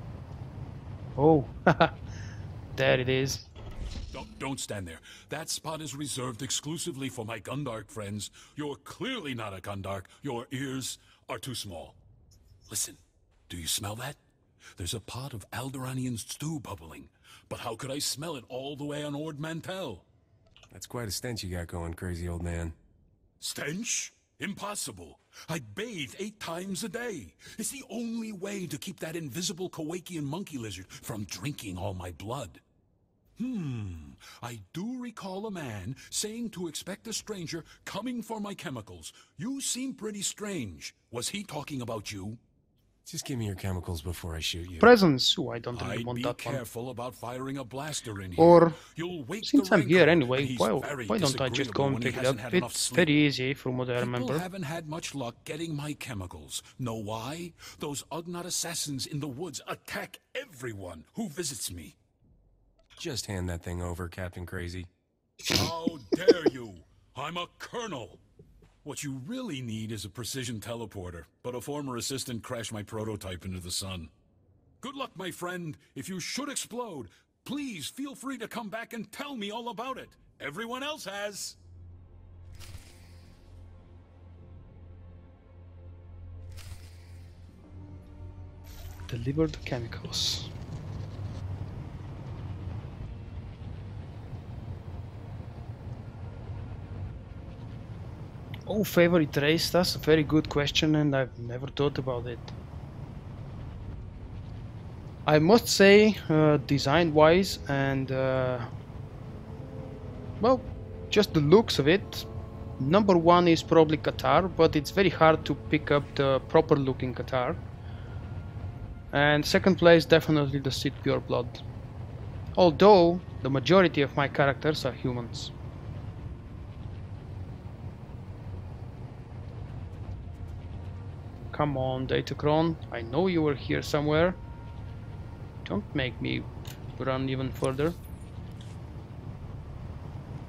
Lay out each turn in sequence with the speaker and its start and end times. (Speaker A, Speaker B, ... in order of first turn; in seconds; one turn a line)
Speaker A: 1.2-1.9
Speaker A: 2.7-3.5
Speaker B: 4.1-12.0
Speaker B: 12.7-14.2
Speaker B: 14.8-20.0
Speaker C: 20.7-22.8
Speaker B: 23.4-32.6
Speaker B: 33.4-42.4
Speaker C: 43.0-45.0
Speaker A: 44.8-46.6
Speaker B: 45.7-53.1
Speaker A: 48.4-48.8
Speaker A: 49.4-54.5
Speaker B: 54.0-62.0
Speaker C: 63.0-64.9
Speaker B: 65.5-68.2
Speaker B: 68.8-74.1
Speaker B: 74.8-81.6
Speaker A: 89.1-90.5
Speaker A: 98.7-102.5
Speaker A: 105.2-108.7
Speaker A: 110.4-112.3
Speaker A: 112.8-117.6
Speaker A: 119.1-121.6
Speaker A: 122.5-125.5
Speaker A: 131.5-134.4
Speaker A: 135.6-137.9